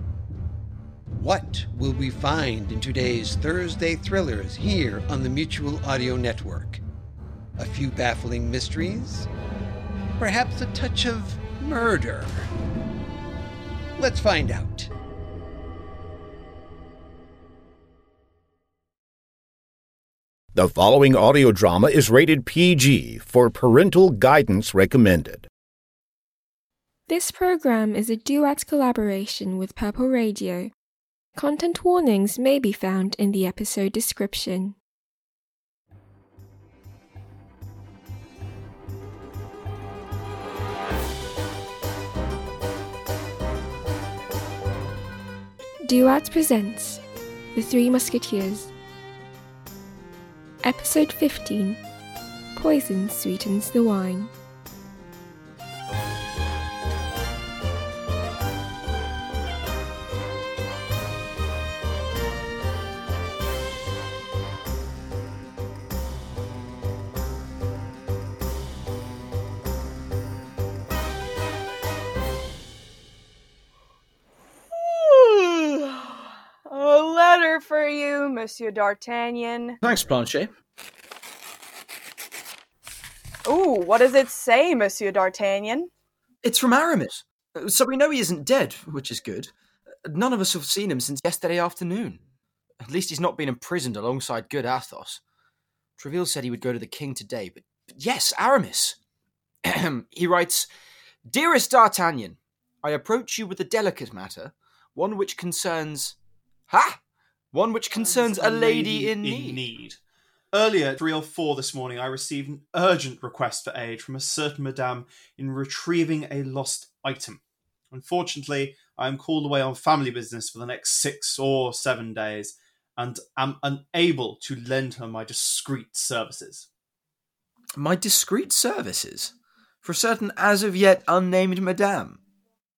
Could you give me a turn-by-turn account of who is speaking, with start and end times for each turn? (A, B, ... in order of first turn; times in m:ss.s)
0:01.2-0:06.8 A
0:07.6-0:09.3 A
0:10.2-0:12.3 A
0:14.0-0:14.9 A
0:20.6-0:25.5 B
0:27.1-0:30.7 C
0:31.4-0:34.8 C
0:45.8-0:47.0 C
0:47.6-0:48.7 C
0:50.6-0:51.8 C
0:52.6-0:54.3 C
1:14.7-1:19.8 D
1:19.8-1:20.5 E
1:23.4-1:25.9 D
1:26.4-1:29.5 E
1:30.0-1:32.2 E
1:32.8-1:35.2 E
1:36.0-1:39.0 E
1:39.6-1:40.7 E
1:41.3-1:46.2 E
1:46.7-1:47.0 E
1:47.5-1:49.7 E
1:48.0-1:50.0 F
1:50.5-2:06.7 F
2:07.8-2:12.2 E